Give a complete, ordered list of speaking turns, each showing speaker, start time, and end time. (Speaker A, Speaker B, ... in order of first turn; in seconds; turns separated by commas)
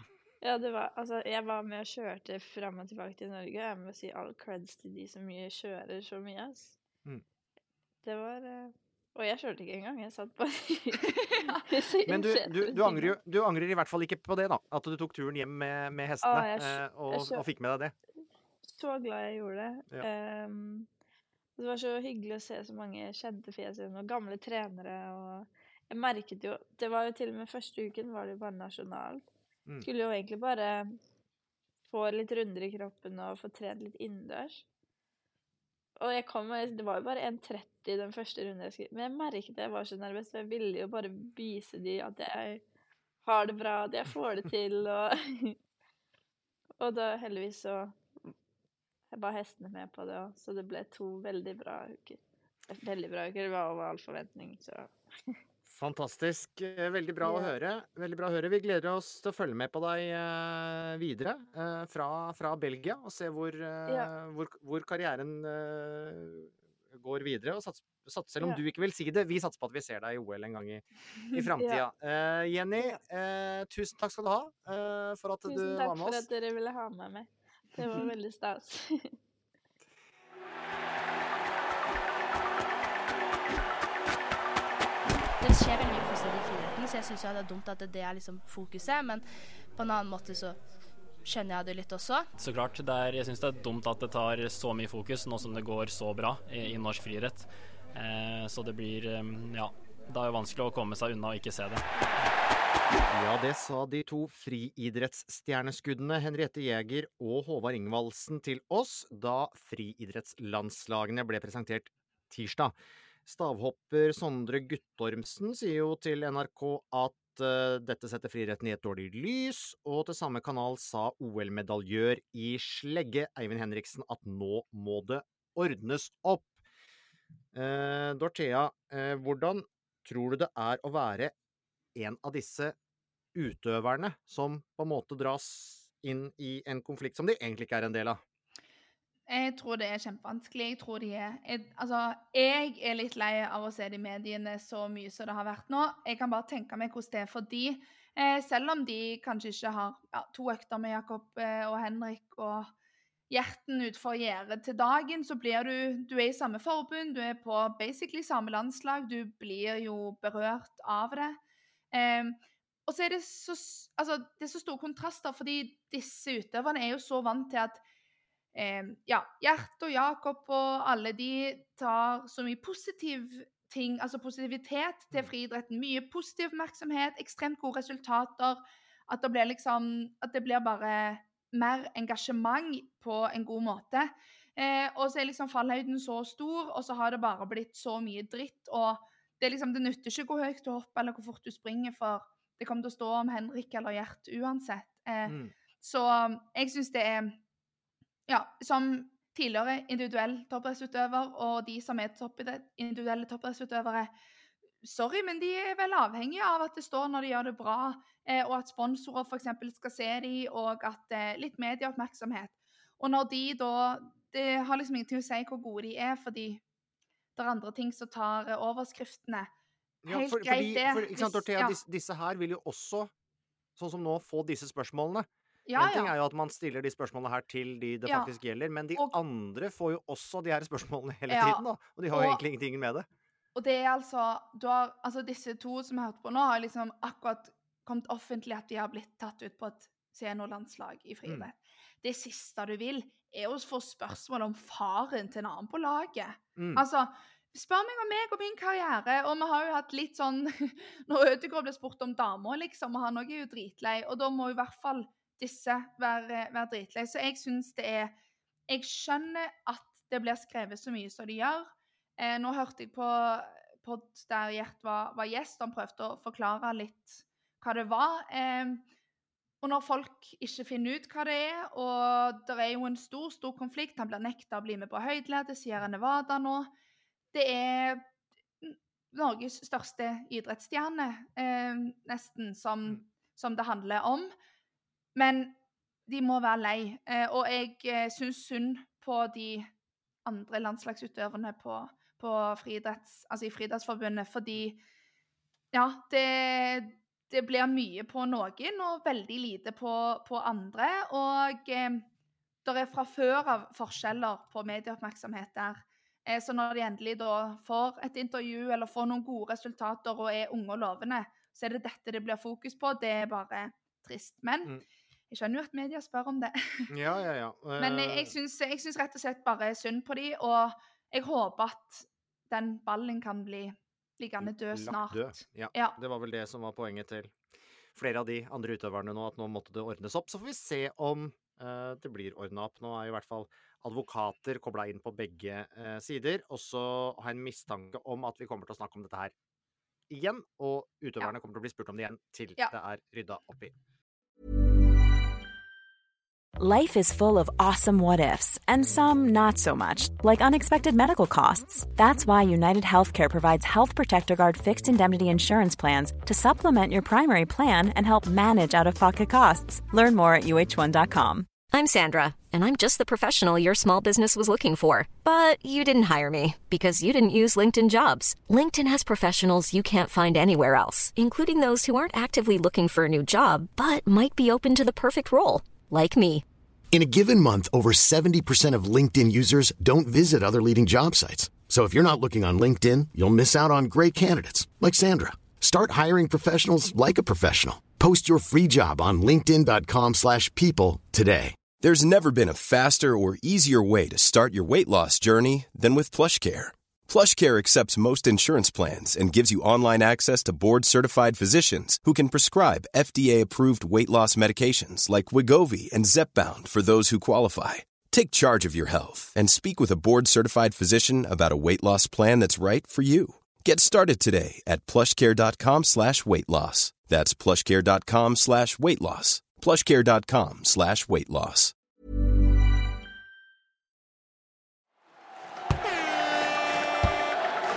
Speaker A: 0.4-6.7, Speaker A: 8.0-13.1, Speaker B: 12.1-17.9, Speaker A: 16.2-17.4, Speaker A: 18.6-20.9, Speaker A: 21.6-29.2, Speaker A: 29.8-31.0, Speaker A: 31.9-34.6, Speaker A: 36.0-42.6, Speaker A: 43.2-45.6, Speaker A: 46.8-48.0, Speaker A: 49.1-52.2, Speaker A: 52.7-55.4, Speaker B: 55.6-76.3, Speaker A: 57.2-57.5, Speaker A: 71.6-71.8, Speaker A: 75.5-79.1, Speaker C: 85.4-90.6, Speaker C: 91.2-92.3, Speaker D: 92.4-101.8, Speaker B: 103.1-112.7, Speaker B: 113.2-126.5, Speaker B: 127.5-131.3, Speaker B: 131.9-132.7, Speaker B: 133.3-138.2, Speaker E: 139.3-152.7, Speaker E: 153.3-161.4, Speaker E: 161.9-167.8, Speaker E: 168.5-197.4, Speaker B: 195.2-195.5, Speaker E: 198.3-204.1, Speaker E: 204.8-216.6, Speaker E: 217.3-219.5, Speaker B: 220.0-223.1, Speaker E: 220.1-221.8, Speaker B: 223.8-233.1, Speaker E: 225.7-226.1, Speaker E: 228.1-228.3, Speaker E: 231.3-232.4, Speaker E: 233.5-258.1, Speaker B: 246.6-246.8, Speaker E: 258.7-268.8, Speaker E: 269.6-276.7, Speaker E: 277.3-278.0, Speaker E: 278.6-284.3, Speaker E: 285.1-285.6, Speaker E: 286.1-289.7, Speaker E: 290.2-294.8, Speaker E: 295.7-302.0, Speaker E: 302.6-314.8, Speaker E: 315.3-316.9, Speaker B: 316.9-318.3, Speaker E: 317.8-326.0, Speaker B: 324.4-327.3, Speaker B: 327.9-339.3, Speaker B: 340.1-343.7, Speaker F: 346.6-361.5, Speaker G: 361.7-376.4, Speaker H: 376.9-391.6, Speaker I: 391.8-421.7